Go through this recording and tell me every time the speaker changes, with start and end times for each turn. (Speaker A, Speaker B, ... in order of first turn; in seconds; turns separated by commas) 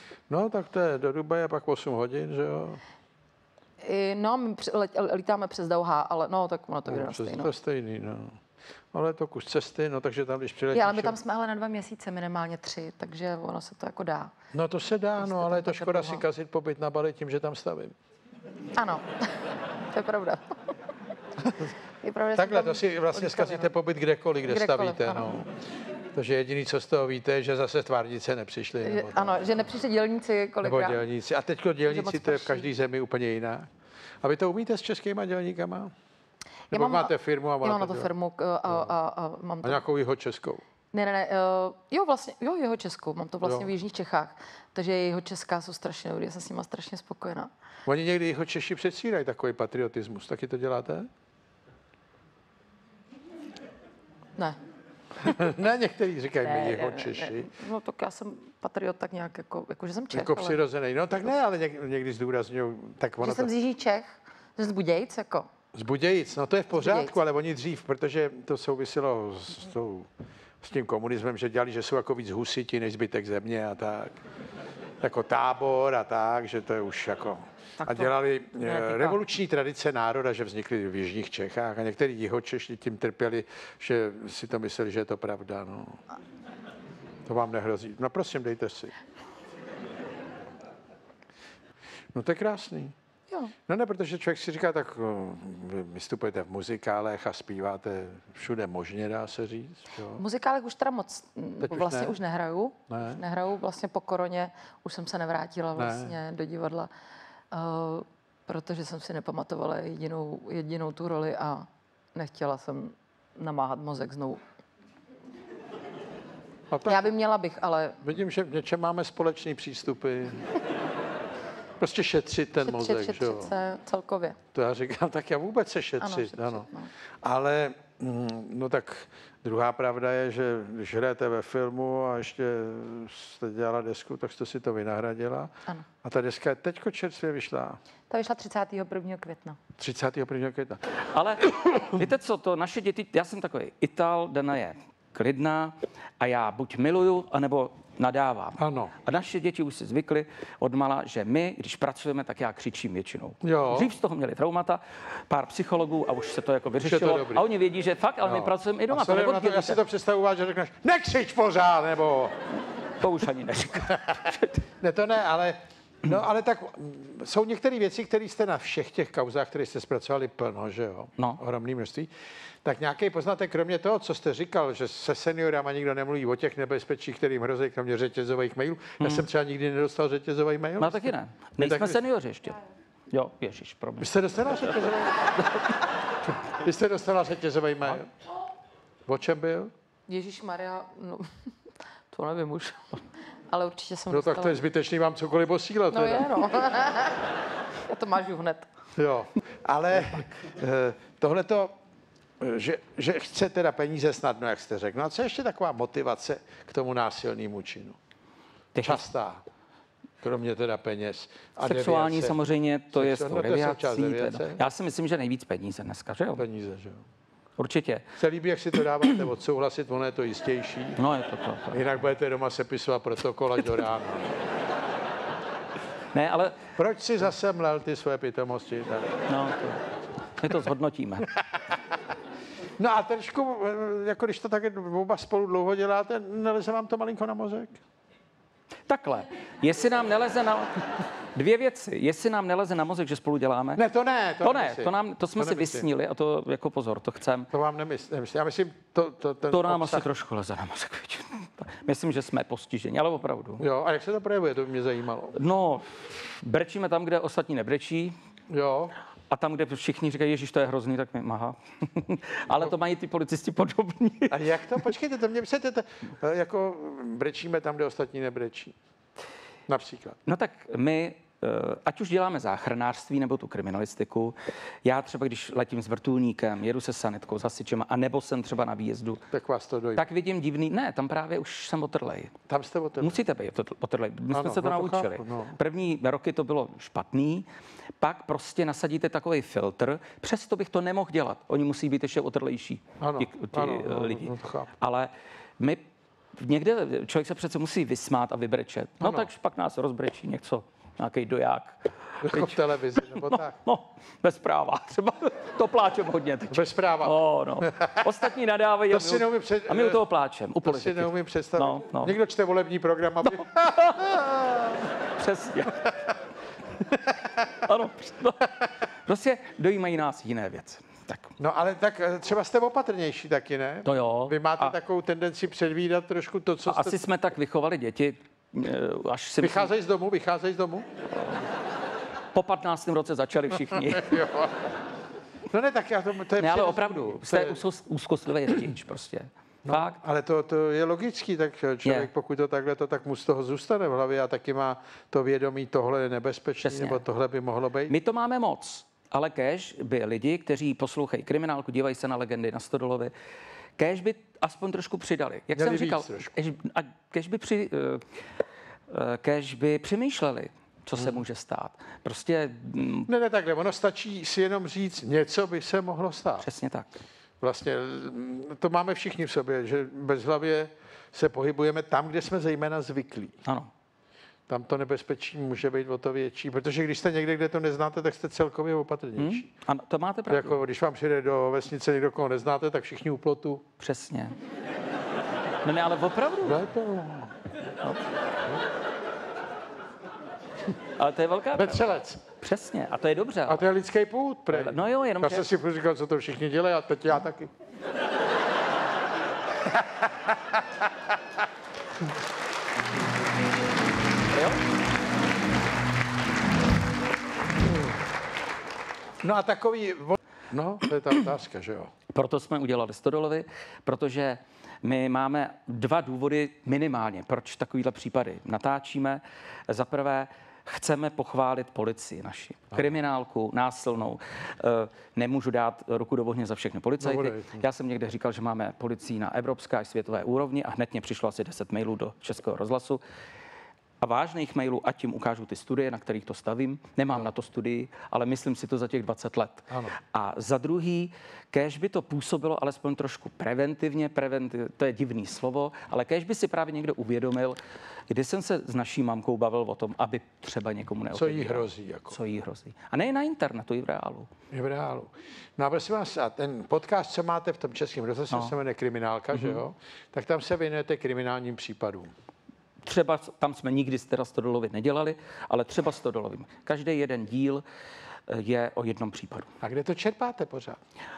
Speaker A: 0.3-2.8, Speaker B: 3.8-7.5, Speaker A: 6.9-8.4, Speaker A: 8.9-11.1, Speaker B: 10.7-14.3, Speaker A: 14.5-17.9, Speaker B: 15.2-16.2, Speaker B: 18.8-20.4, Speaker A: 21.4-21.7, Speaker B: 22.0-23.7, Speaker A: 22.4-25.5, Speaker B: 24.4-25.3, Speaker A: 26.1-29.5, Speaker B: 28.8-31.0, Speaker A: 30.6-33.7, Speaker B: 31.8-32.7, Speaker A: 34.2-35.9, Speaker B: 36.7-39.8, Speaker A: 36.7-38.1, Speaker A: 38.7-38.9, Speaker A: 39.6-40.6, Speaker B: 40.9-47.5, Speaker A: 43.4-43.7, Speaker A: 47.9-51.1, Speaker A: 55.2-57.5, Speaker B: 56.4-60.6, Speaker A: 60.1-63.5, Speaker B: 63.2-65.5, Speaker A: 65.7-70.1, Speaker B: 66.7-67.2, Speaker A: 70.6-74.2, Speaker A: 75.0-86.0, Speaker B: 77.8-79.2, Speaker A: 87.2-88.9, Speaker A: 92.1-92.9, Speaker A: 93.7-100.2, Speaker B: 100.2-106.9, Speaker A: 101.6-102.2, Speaker A: 102.9-103.2, Speaker A: 105.8-106.1, Speaker B: 107.5-114.4, Speaker A: 116.7-117.0, Speaker B: 116.8-118.0, Speaker A: 118.0-120.5, Speaker A: 121.8-123.5, Speaker B: 122.6-124.4, Speaker A: 124.5-126.7, Speaker B: 126.0-126.9, Speaker A: 127.2-137.8, Speaker B: 138.1-139.6, Speaker A: 139.8-141.0, Speaker C: 141.1-159.8, Speaker A: 148.6-148.9, Speaker A: 153.4-153.9, Speaker A: 156.8-157.4, Speaker A: 158.2-162.3, Speaker C: 163.0-164.6, Speaker A: 164.8-172.1, Speaker A: 172.6-182.0, Speaker C: 179.0-179.3, Speaker C: 180.8-182.6, Speaker C: 183.1-184.9, Speaker A: 184.0-185.4, Speaker A: 186.4-188.1, Speaker A: 189.1-189.7, Speaker B: 190.1-191.3, Speaker B: 192.1-194.6, Speaker A: 194.1-196.3, Speaker B: 195.9-197.3, Speaker B: 197.8-198.7, Speaker A: 198.9-201.7, Speaker A: 202.4-208.0, Speaker C: 208.7-209.0, Speaker A: 208.8-209.4, Speaker A: 210.2-212.4, Speaker C: 211.6-216.4, Speaker A: 212.9-214.6, Speaker A: 216.4-217.0, Speaker C: 217.6-218.1, Speaker A: 218.2-221.0, Speaker C: 221.0-221.8, Speaker A: 221.7-224.4, Speaker C: 226.1-226.6, Speaker A: 226.8-229.1, Speaker C: 229.3-229.8, Speaker C: 230.4-231.3, Speaker A: 232.8-237.8, Speaker C: 238.9-243.8, Speaker A: 243.8-245.8, Speaker C: 244.4-247.5, Speaker A: 247.5-250.1, Speaker C: 249.5-253.6, Speaker A: 253.6-255.3, Speaker C: 255.3-258.1, Speaker A: 258.5-258.9, Speaker C: 259.3-264.9, Speaker A: 264.3-268.7, Speaker A: 269.7-270.2, Speaker C: 270.2-279.2, Speaker A: 279.3-280.0, Speaker C: 279.9-282.3, Speaker A: 282.5-283.2, Speaker C: 283.0-287.5, Speaker A: 284.3-285.6, Speaker C: 288.0-295.8, Speaker A: 293.0-294.7, Speaker C: 296.4-312.2, Speaker A: 299.0-299.3, Speaker A: 302.2-303.5, Speaker A: 306.5-308.0, Speaker A: 308.9-310.0, Speaker A: 310.6-314.9, Speaker C: 313.2-314.3, Speaker C: 315.1-315.9, Speaker C: 316.8-321.3, Speaker A: 321.4-327.0, Speaker C: 323.8-324.8, Speaker C: 326.6-329.7, Speaker A: 329.4-330.9, Speaker C: 332.3-334.2, Speaker A: 333.7-334.7, Speaker A: 335.5-337.6, Speaker C: 336.4-340.0, Speaker A: 339.6-347.9, Speaker C: 341.8-342.1, Speaker C: 346.6-347.0, Speaker C: 347.9-353.1, Speaker C: 353.8-358.0, Speaker A: 355.5-356.3, Speaker C: 358.9-363.1, Speaker A: 363.1-366.5, Speaker C: 366.4-367.0, Speaker A: 367.4-373.4, Speaker C: 373.4-373.7, Speaker A: 374.5-379.5, Speaker C: 379.1-380.6, Speaker A: 380.3-383.6, Speaker C: 383.8-384.3, Speaker C: 385.6-386.6, Speaker A: 386.4-387.3, Speaker C: 390.9-393.7, Speaker A: 391.5-392.2, Speaker A: 393.4-397.5, Speaker C: 394.5-395.5, Speaker A: 399.7-400.3, Speaker C: 404.3-404.6, Speaker A: 409.2-411.9, Speaker C: 412.1-433.0, Speaker A: 427.0-427.6, Speaker C: 434.0-447.6, Speaker A: 439.7-440.0, Speaker C: 448.1-454.3, Speaker A: 451.1-452.2, Speaker A: 454.5-462.1, Speaker C: 458.3-458.6, Speaker C: 459.3-459.6, Speaker C: 462.8-467.6, Speaker C: 468.3-469.5, Speaker A: 469.6-470.8